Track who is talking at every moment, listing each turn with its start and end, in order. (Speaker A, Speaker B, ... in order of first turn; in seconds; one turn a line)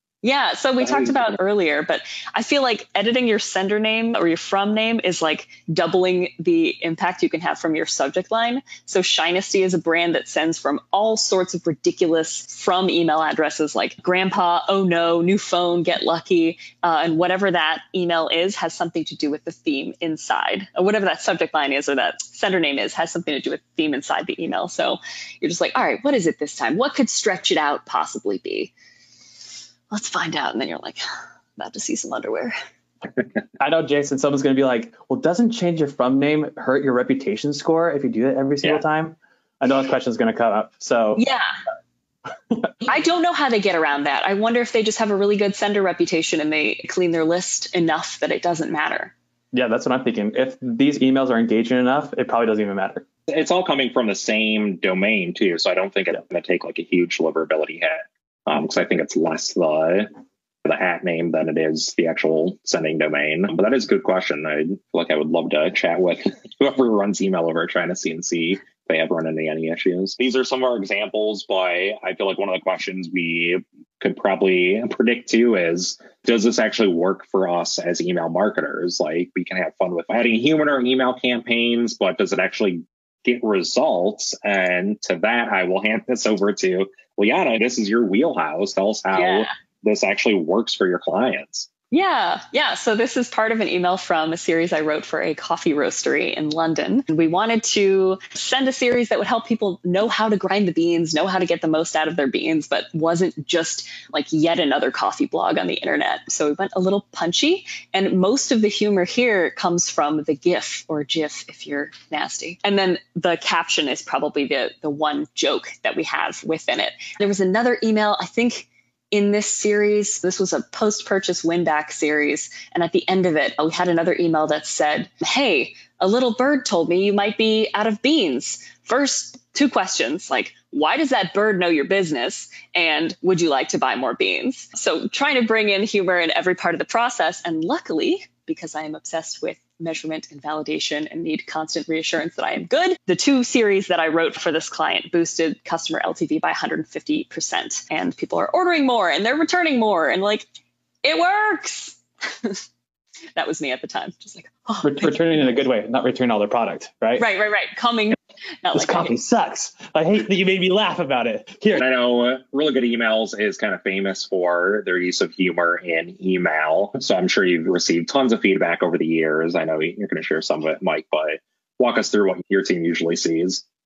Speaker A: 0.2-28.7
Speaker B: 0.8-1.4
Speaker A: 29.9-31.0
Speaker A: 31.6-32.5
Speaker C: 33.6-41.2
Speaker A: 41.2-41.5
Speaker A: 42.9-49.1
Speaker C: 49.5-53.0
Speaker B: 53.3-60.1
Speaker B: 60.6-91.7
Speaker A: 89.1-89.5
Speaker A: 91.9-150.5
Speaker A: 151.0-152.6
Speaker A: 153.4-155.3
Speaker C: 154.8-157.2
Speaker A: 157.2-159.2
Speaker C: 158.7-161.8
Speaker B: 161.8-173.6